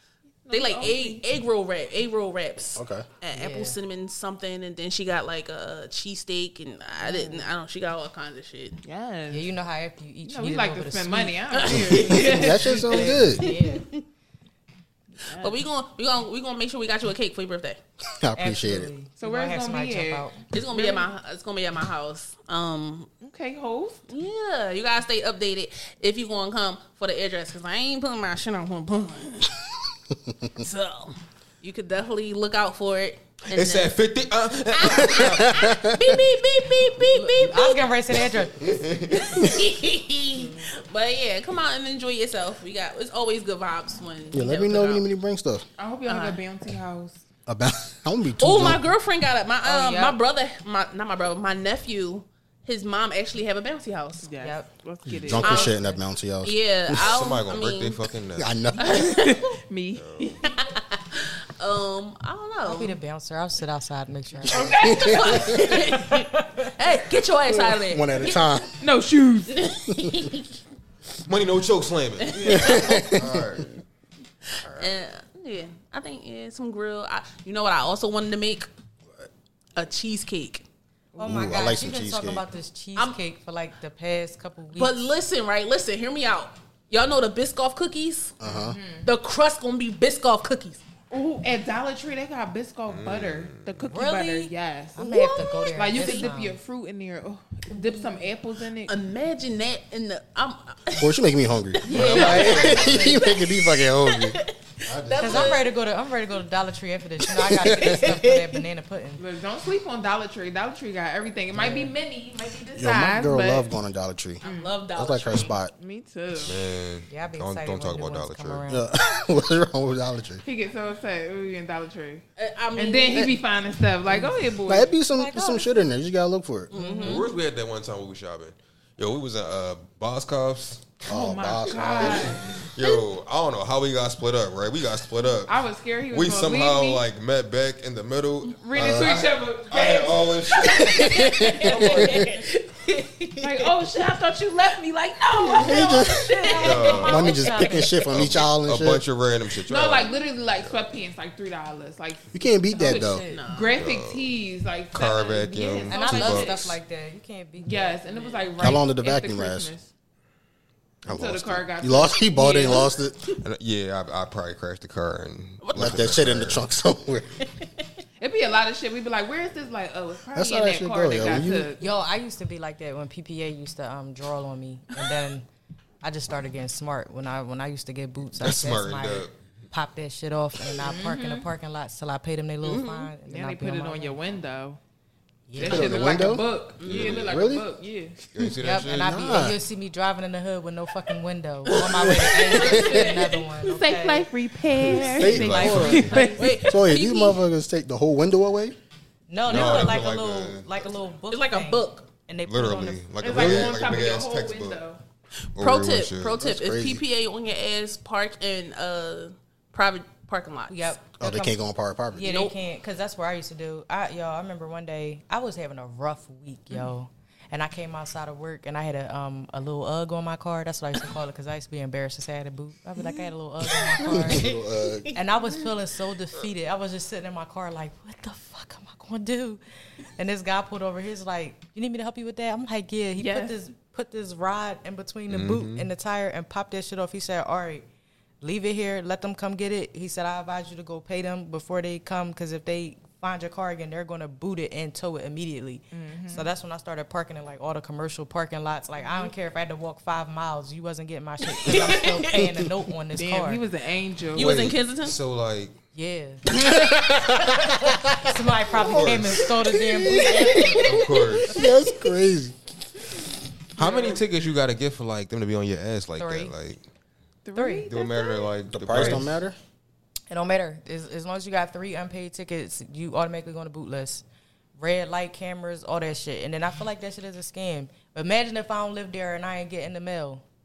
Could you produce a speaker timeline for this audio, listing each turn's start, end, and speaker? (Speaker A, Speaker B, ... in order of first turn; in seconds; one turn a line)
Speaker A: 0.4-1.2
Speaker B: 0.5-8.8
Speaker C: 2.8-3.0
Speaker D: 3.3-3.8
Speaker A: 7.0-7.5
Speaker A: 8.8-9.5
Speaker D: 9.3-11.4
Speaker A: 10.2-13.1
Speaker B: 11.5-14.0
Speaker C: 11.9-13.4
Speaker D: 12.0-13.9
Speaker A: 15.2-15.6
Speaker B: 15.4-17.8
Speaker C: 18.2-18.9
Speaker D: 18.4-20.4
Speaker A: 19.2-21.1
Speaker B: 20.5-23.1
Speaker A: 23.2-24.0
Speaker B: 24.1-29.7
Speaker B: 30.5-34.0
Speaker E: 33.5-35.5
Speaker B: 34.7-37.9
Speaker C: 35.2-36.1
Speaker D: 37.0-38.9
Speaker E: 38.6-39.3
Speaker B: 39.1-45.1
Speaker C: 44.3-45.6
Speaker A: 45.8-47.2
Speaker B: 46.0-46.4
Speaker C: 47.5-48.9
Speaker B: 48.4-54.3
Speaker A: 49.6-50.1
Speaker A: 54.2-55.9
Speaker D: 54.4-54.7
Speaker C: 55.1-57.0
Speaker B: 55.3-55.8
Speaker B: 56.4-58.1
Speaker E: 57.0-58.6
Speaker C: 58.4-59.0
Speaker B: 58.8-59.5
Speaker A: 58.8-60.4
Speaker E: 60.0-60.4
Speaker B: 60.4-63.0
Speaker D: 62.6-64.8
Speaker A: 64.5-65.5
Speaker C: 64.6-65.6
Speaker B: 64.8-68.5
Speaker D: 65.7-66.7
Speaker C: 67.6-68.7
Speaker A: 68.8-69.7
Speaker B: 69.5-70.5
Speaker E: 71.2-73.7
Speaker B: 72.2-73.2
Speaker C: 72.4-73.5
Speaker B: 74.8-78.7
Speaker B: 79.8-80.6
Speaker D: 81.2-84.9
Speaker C: 81.2-82.4
Speaker B: 84.8-88.4
Speaker C: 88.4-88.8
Speaker A: 88.4-89.1
Speaker B: 89.0-90.8
Speaker A: 91.1-98.9
Speaker E: 92.9-93.9
Speaker D: 93.9-96.6
Speaker B: 95.6-96.2
Speaker B: 98.9-101.2
Speaker C: 101.0-104.4
Speaker B: 101.8-105.7
Speaker A: 101.9-102.7
Speaker E: 101.9-103.1
Speaker D: 102.1-102.9
Speaker E: 104.9-105.6
Speaker D: 105.2-109.2
Speaker B: 107.4-108.5
Speaker C: 107.7-107.9
Speaker A: 109.2-113.7
Speaker D: 111.5-111.9
Speaker C: 112.8-114.4
Speaker B: 114.4-115.5
Speaker A: 114.4-114.8
Speaker C: 114.9-115.7
Speaker A: 115.7-116.6
Speaker E: 116.4-118.6
Speaker D: 117.1-118.9
Speaker C: 118.7-120.4
Speaker A: 120.4-122.2
Speaker B: 122.4-123.4
Speaker A: 122.8-124.9
Speaker C: 124.6-126.7
Speaker D: 125.1-125.9
Speaker B: 126.7-127.3
Speaker D: 126.8-127.2
Speaker E: 127.0-131.0
Speaker A: 131.0-132.7
Speaker C: 131.1-132.4
Speaker E: 131.7-135.6
Speaker A: 135.4-137.0
Speaker E: 136.1-141.1
Speaker A: 138.5-142.1
Speaker C: 138.8-139.1
Speaker B: 140.6-143.9
Speaker C: 141.0-142.2
Speaker A: 143.4-147.3
Speaker B: 145.4-146.9
Speaker C: 145.6-146.3
Speaker D: 146.4-147.9
Speaker E: 146.6-147.2
Speaker C: 147.0-149.0
Speaker E: 148.1-150.9
Speaker A: 149.6-156.7
Speaker C: 152.3-153.2
Speaker D: 152.8-153.4
Speaker B: 153.3-153.8
Speaker E: 153.8-154.3
Speaker E: 154.9-156.8
Speaker D: 155.9-158.0
Speaker A: 157.6-159.9
Speaker C: 158.6-159.7
Speaker E: 161.0-161.7
Speaker A: 161.1-162.9
Speaker C: 161.8-163.2
Speaker E: 163.4-166.6
Speaker B: 165.6-165.9
Speaker C: 165.8-167.4
Speaker A: 168.2-171.8
Speaker C: 170.3-171.7
Speaker D: 171.8-175.5
Speaker D: 176.0-184.2
Speaker E: 178.4-179.3
Speaker A: 180.8-181.5
Speaker B: 182.6-183.1
Speaker A: 183.2-184.8
Speaker D: 185.5-186.4
Speaker A: 185.6-188.2
Speaker C: 185.6-186.4
Speaker B: 186.8-187.3
Speaker E: 186.8-187.4
Speaker C: 187.0-187.7
Speaker E: 188.3-189.2
Speaker D: 188.6-194.3
Speaker C: 188.9-189.6
Speaker B: 191.7-193.5
Speaker C: 191.9-192.8
Speaker A: 192.7-196.7
Speaker D: 194.9-196.4
Speaker C: 195.0-196.1
Speaker E: 195.0-196.2
Speaker B: 196.1-197.4
Speaker C: 196.6-198.8
Speaker D: 199.3-203.1
Speaker E: 199.4-200.9
Speaker B: 201.3-202.1
Speaker E: 202.4-204.8
Speaker A: 203.2-205.0
Speaker E: 205.6-206.4
Speaker B: 205.6-210.9
Speaker C: 206.4-207.0
Speaker D: 210.7-224.5
Speaker C: 211.2-212.2
Speaker B: 212.2-212.6
Speaker C: 224.0-225.1
Speaker D: 225.1-229.6
Speaker D: 230.2-237.9
Speaker A: 233.2-233.6
Speaker E: 235.3-235.9
Speaker D: 238.4-253.6
Speaker A: 245.9-246.5
Speaker A: 249.0-249.3
Speaker B: 251.6-252.4
Speaker A: 253.1-254.6
Speaker B: 254.3-255.2
Speaker E: 254.4-255.7
Speaker D: 255.9-256.6
Speaker C: 256.7-257.6
Speaker D: 257.4-261.0
Speaker E: 258.7-259.5
Speaker C: 259.6-262.5
Speaker E: 260.8-261.6
Speaker E: 263.8-266.8
Speaker A: 263.8-264.2
Speaker D: 266.2-266.5
Speaker A: 267.4-268.5
Speaker D: 267.5-267.9
Speaker E: 267.9-269.4
Speaker C: 268.7-269.6
Speaker D: 270.3-274.2
Speaker D: 274.8-280.4